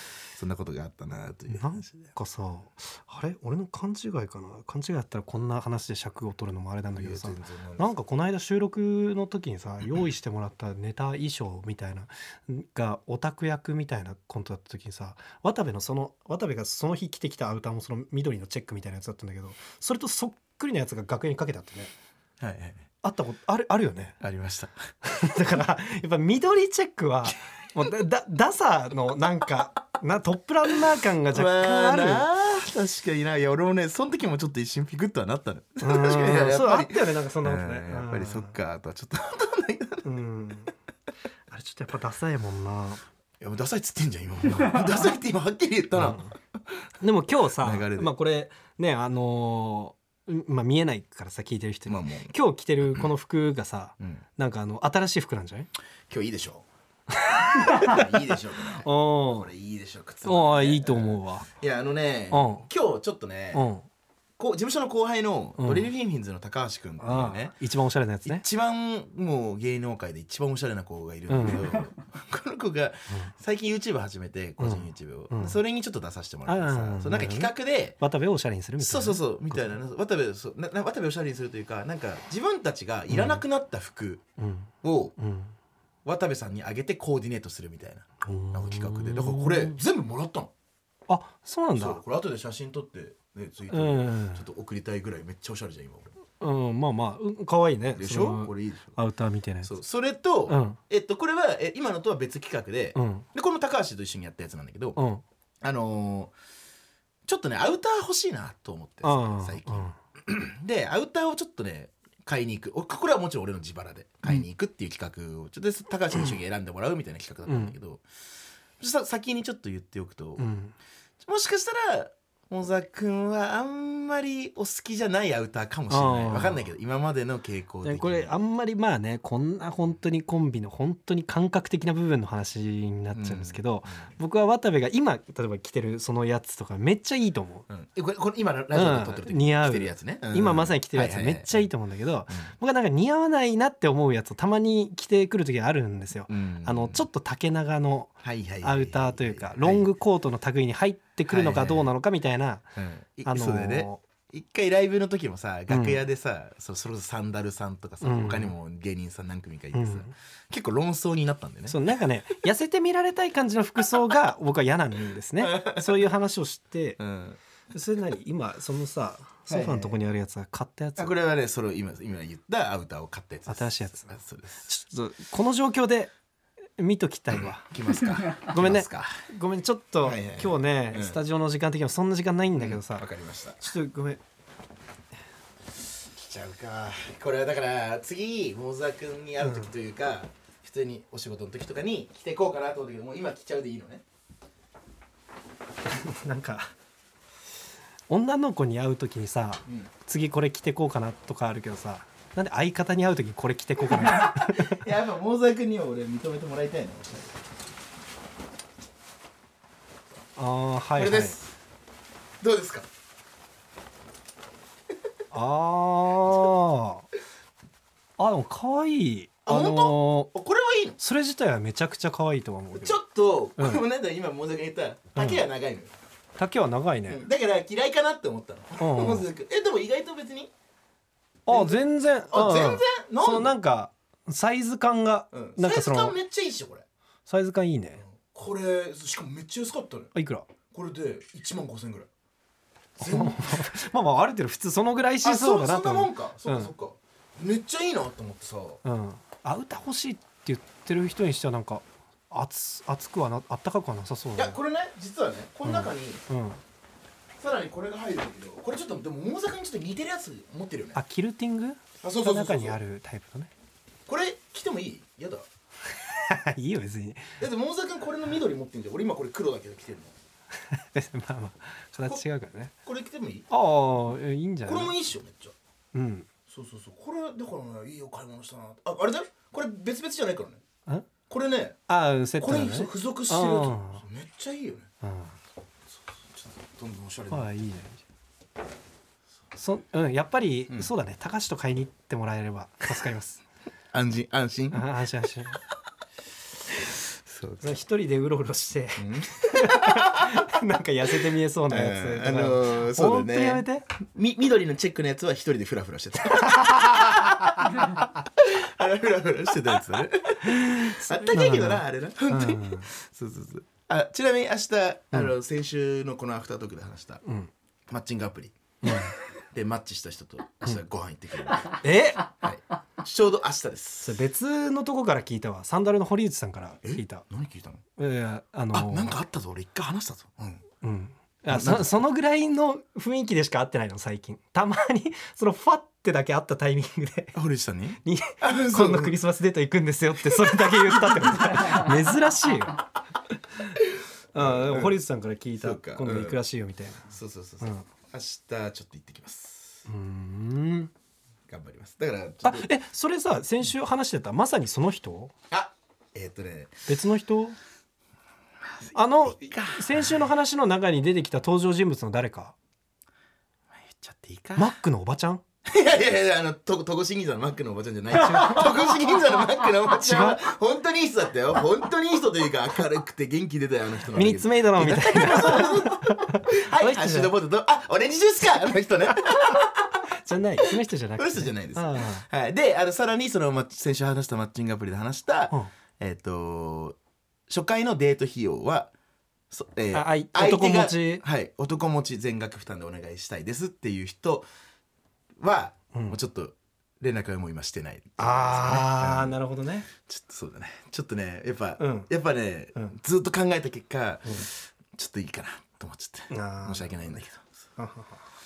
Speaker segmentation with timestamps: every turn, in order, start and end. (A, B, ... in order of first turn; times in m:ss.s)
0:00.3-0:02.1 A
0:01.5-0:21.9 B
0:07.0-0:07.9 A
0:22.4-0:22.8 A
0:23.0-0:24.2 B
0:24.2-0:24.7 A
0:25.0-0:32.3 B
0:31.3-0:40.1 A
0:35.8-0:38.6 B
0:40.0-0:40.7 B
0:41.5-0:43.0 B
0:43.4-0:46.4 A
0:45.9-0:46.3 B
0:47.0-0:55.7 B
0:47.6-0:48.1 A
0:51.9-0:52.3 A
0:56.1-0:56.6 A
0:57.2-0:58.1 B
0:57.6-1:03.7 A
0:58.8-0:59.5 B
1:00.2-1:01.5 B
1:02.3-1:02.7 B
1:03.5-1:03.8 B
1:04.4-1:07.5 A
1:05.6-1:05.9 B
1:07.0-1:08.4 B
1:08.2-1:18.0 A
1:11.3-1:11.8 B
1:14.6-1:15.6 B
1:16.4-1:19.8 B
1:18.8-1:24.2 A
1:23.1-1:23.4 B
1:24.4-1:25.6 B
1:24.8-1:25.1 A
1:26.0-1:30.5 A
1:28.2-1:29.8 B
1:31.1-1:32.0 B
1:31.7-1:36.1 A
1:33.7-1:34.4 B
1:36.4-1:39.8 B
1:38.0-1:39.0 A
1:39.6-1:45.0 A
1:40.5-1:40.8 B
1:42.9-1:43.3 B
1:45.0-1:45.2 B
1:45.6-1:46.3 A
1:47.2-1:58.0 A
1:49.0-1:50.0 B
1:57.4-1:57.8 B
1:58.8-2:00.5 A
2:00.4-2:00.7 B
2:01.2-2:08.3 A
2:05.9-2:06.7 B
2:07.8-2:17.7 B
2:13.1-2:14.1 A
2:17.7-2:21.7 A
2:18.7-2:32.7 B
2:26.3-2:27.1 A
2:28.2-2:29.9 A
2:31.3-2:31.9 A
2:32.8-2:41.8 A
2:33.2-2:34.0 B
2:35.7-2:36.0 B
2:38.0-2:38.5 B
2:39.7-2:40.1 B
2:41.7-2:47.0 B
2:45.4-2:46.1 A
2:47.0-2:47.4 A
2:47.7-2:51.2 B
2:49.5-2:50.0 A
2:51.0-2:54.8 A
2:53.5-2:56.1 B
2:56.8-2:57.7 B
2:57.3-2:59.2 A
2:58.3-3:04.2 B
3:00.0-3:01.2 A
3:02.5-3:03.6 A
3:06.0-3:14.0 A
3:09.4-3:09.7 B
3:15.9-3:16.7 B
3:18.1-3:24.8 B
3:23.9-3:27.4 A
3:30.4-3:31.4 B
3:31.0-3:31.5 A
3:32.4-3:32.8 A
3:35.3-3:37.0 B
3:38.2-3:40.3 B
3:39.5-3:41.0 A
3:41.0-3:43.0 B
3:42.7-3:45.9 A
3:43.6-3:43.8 B
3:45.1-3:45.4 B
3:46.4-3:47.2 B
3:47.1-3:50.5 A
3:48.8-3:49.3 B
3:51.4-3:56.2 B
3:51.5-3:53.5 A
3:55.3-3:56.8 A
3:57.2-3:58.0 B
3:58.0-4:00.1 A
4:00.1-4:00.5 B
4:00.7-4:02.1 A
4:03.0-4:03.7 A
4:03.0-4:06.7 B
4:05.2-4:08.8 A
4:08.8-4:14.6 B
4:14.4-4:16.2 A
4:15.6-4:16.6 B
4:17.4-4:21.0 A
4:20.9-4:23.5 B
4:22.0-4:22.8 A
4:24.1-4:25.4 A
4:25.9-4:27.3 B
4:27.4-4:30.1 A
4:30.7-4:32.7 B
4:32.8-4:33.5 A
4:33.5-4:34.9 B
4:34.6-4:35.5 A
4:35.9-4:36.3 B
4:36.5-4:40.6 A
4:41.3-4:41.8 A
4:41.9-4:44.0 B
4:42.4-4:44.9 A
4:45.0-4:45.4 B
4:46.1-4:47.5 A
4:47.3-4:48.0 B
4:49.6-4:53.4 B
4:53.9-4:54.9 A
4:54.7-4:55.6 B
4:57.3-4:57.6 A
4:57.6-5:03.8 B
4:59.0-5:00.2 A
5:01.2-5:17.2 A
5:06.3-5:07.8 B
5:10.5-5:12.9 B
5:17.2-5:17.5 B
5:17.9-5:21.8 A
5:18.8-5:19.1 B
5:21.8-5:22.3 B
5:22.3-5:24.2 A
5:24.0-5:27.2 B
5:26.8-5:27.8 A
5:28.0-5:29.2 B
5:28.7-5:30.6 A
5:30.8-5:37.4 B
5:31.5-5:32.0 A
5:37.3-5:39.2 A
5:38.0-5:42.8 B
5:40.2-5:41.7 A
5:44.3-5:45.0 A
5:44.3-5:47.1 B
5:45.6-5:46.4 A
5:47.1-5:49.8 A
5:49.9-5:50.9 B
5:51.5-5:52.7 A
5:52.4-5:55.3 B
5:55.5-5:56.9 A
5:56.8-5:57.6 B
5:58.8-6:00.2 A
5:58.9-6:02.5 B
6:03.8-6:04.7 A
6:04.6-6:05.4 B
6:05.6-6:19.8 A
6:08.1-6:08.8 B
6:10.0-6:10.4 B
6:14.1-6:17.3 B
6:20.1-6:22.2 B
6:20.6-6:27.0 A
6:27.5-6:28.9 A
6:29.5-6:34.4 A
6:29.9-6:31.2 B
6:35.4-6:39.4 A
6:35.9-6:36.2 B
6:38.2-6:39.9 B
6:40.0-6:47.5 A
6:41.8-6:42.1 B
6:46.3-6:47.2 B
6:47.8-6:48.2 B